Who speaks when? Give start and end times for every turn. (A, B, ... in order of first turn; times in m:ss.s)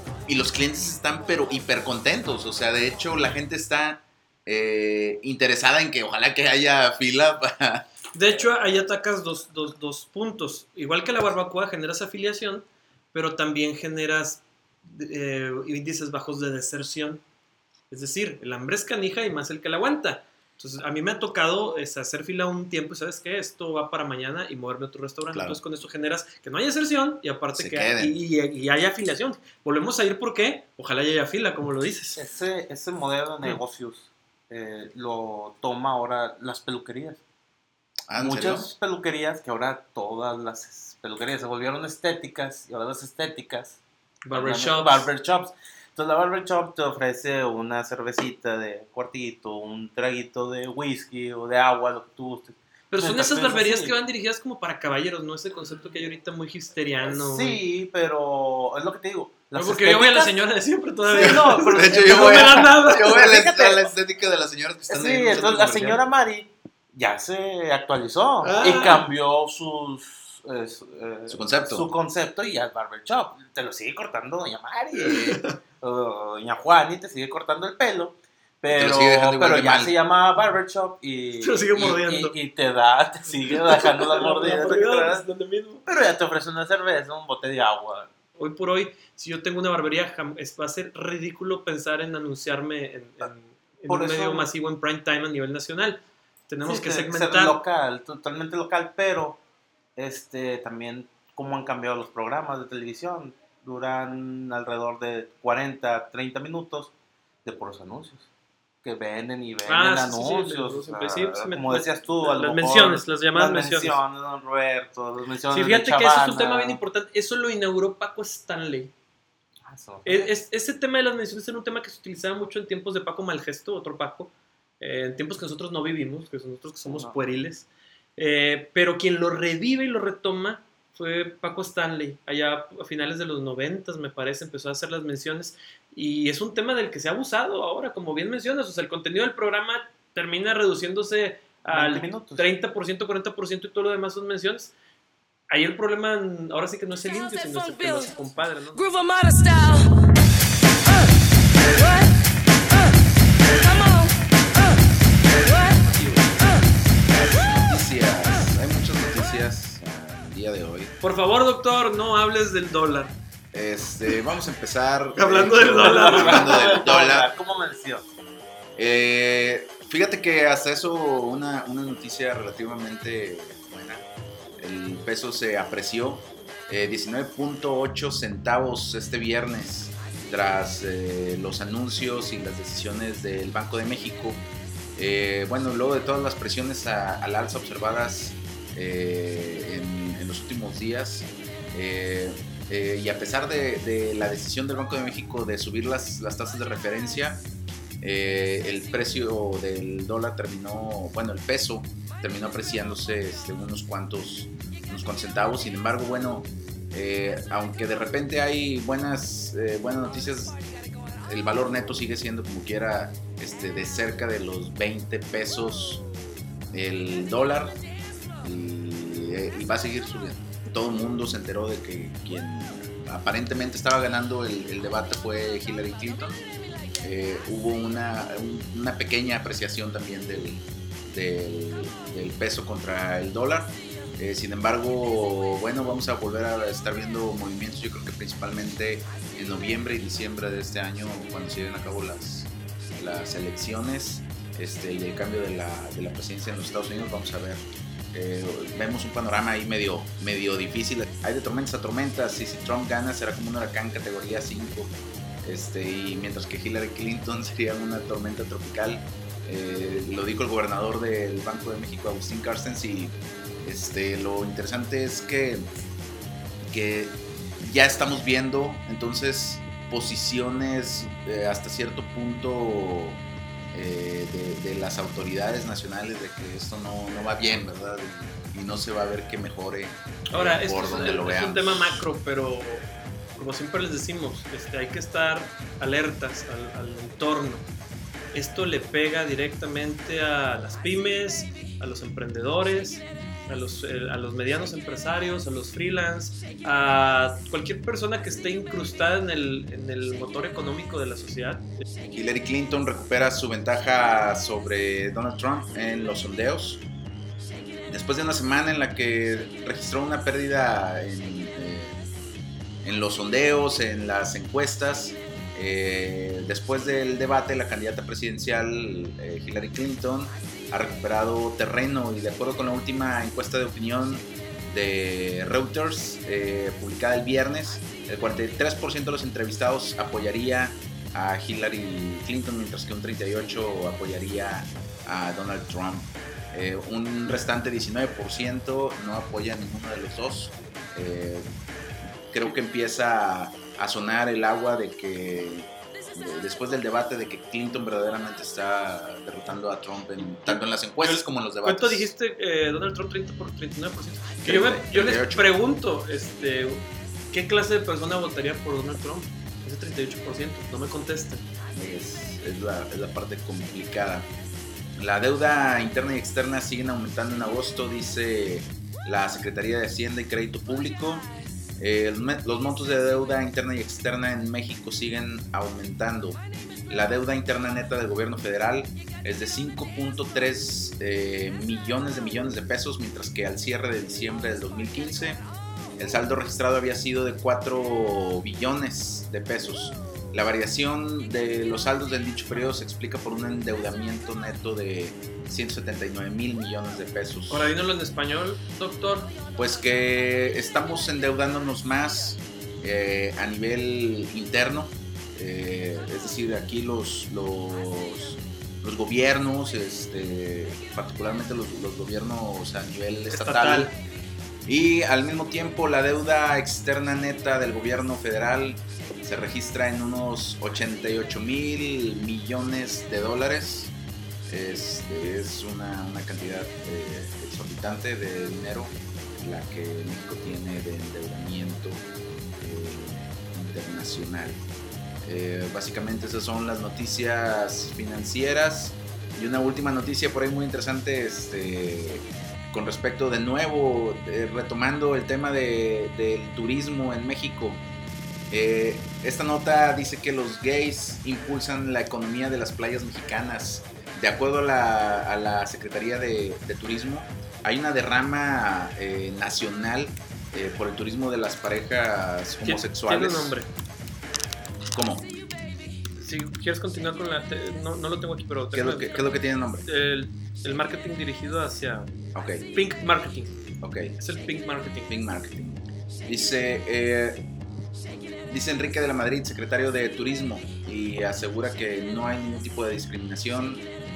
0:00.2-0:07.9 A
0:08.1-0:17.2 B
0:17.9-0:32.2 B
0:25.3-0:25.6 A
0:27.6-0:28.2 A
0:32.2-0:37.2 C
0:38.1-0:38.7 A
0:38.1-0:43.8 C
0:44.2-0:45.1 B
0:44.3-0:53.9 C
0:52.9-0:57.6 B
0:57.0-1:00.4 C
0:59.5-1:03.2 B
1:01.1-1:03.9 C
1:01.2-1:06.0 A
1:04.9-1:25.2 C
1:08.4-1:09.1 B
1:11.3-1:11.9 A
1:15.0-1:15.6 B
1:18.7-1:20.0 A
1:21.4-1:22.4 B
1:23.6-1:25.8 B
1:25.9-1:28.1 C
1:28.4-1:37.6 B
1:33.9-1:34.5 C
1:36.6-1:39.4 C
1:40.0-1:46.9 C
1:47.4-1:48.3 C
1:48.8-1:56.8 C
1:49.7-1:54.0 B
1:55.5-1:58.9 B
1:59.6-2:00.3 C
2:00.0-2:24.7 B
2:06.9-2:07.2 C
2:21.7-2:22.5 C
2:25.5-2:29.8 B
2:33.7-2:34.1 B
2:35.3-2:36.4 B
2:37.1-2:40.9 A
2:41.0-2:43.1 B
2:43.5-2:47.3 A
2:45.2-2:46.8 B
2:45.5-2:48.0 C
2:48.8-2:54.0 A
2:54.6-3:04.4 A
3:05.0-3:17.4 A
3:18.0-3:30.6 A
3:31.2-3:36.0 A
3:36.7-3:37.8 A
3:38.4-3:46.4 A
3:47.0-4:14.9 A
4:15.4-4:25.7 A
4:26.7-4:33.2 A
4:33.7-4:42.0 A
4:40.3-4:47.6 B
4:48.3-5:01.7 B
5:02.1-5:06.8 A
5:07.9-5:12.0 A
5:12.8-5:41.5 A
5:42.3-5:52.1 A
5:50.3-6:01.4 B
5:54.4-5:55.5 A
6:01.7-6:04.3 A
6:05.0-6:11.3 A
6:11.8-6:25.4 A
6:26.0-6:37.7 A
6:37.5-6:39.3 B
6:39.6-6:53.9 A
6:53.3-6:53.9 B
6:54.6-7:03.9 A
7:04.5-7:12.0 A
7:12.6-7:14.6 A
7:15.2-7:27.8 A
7:28.5-7:43.6 A
7:42.6-7:43.7 B
7:44.9-7:45.3 A
7:46.2-7:52.1 B
7:48.7-7:49.9 A
7:52.4-7:52.7 A
7:52.7-7:53.6 B
7:53.8-7:54.2 A
7:54.2-7:55.1 B
7:55.1-7:57.4 A
7:58.5-8:03.8 A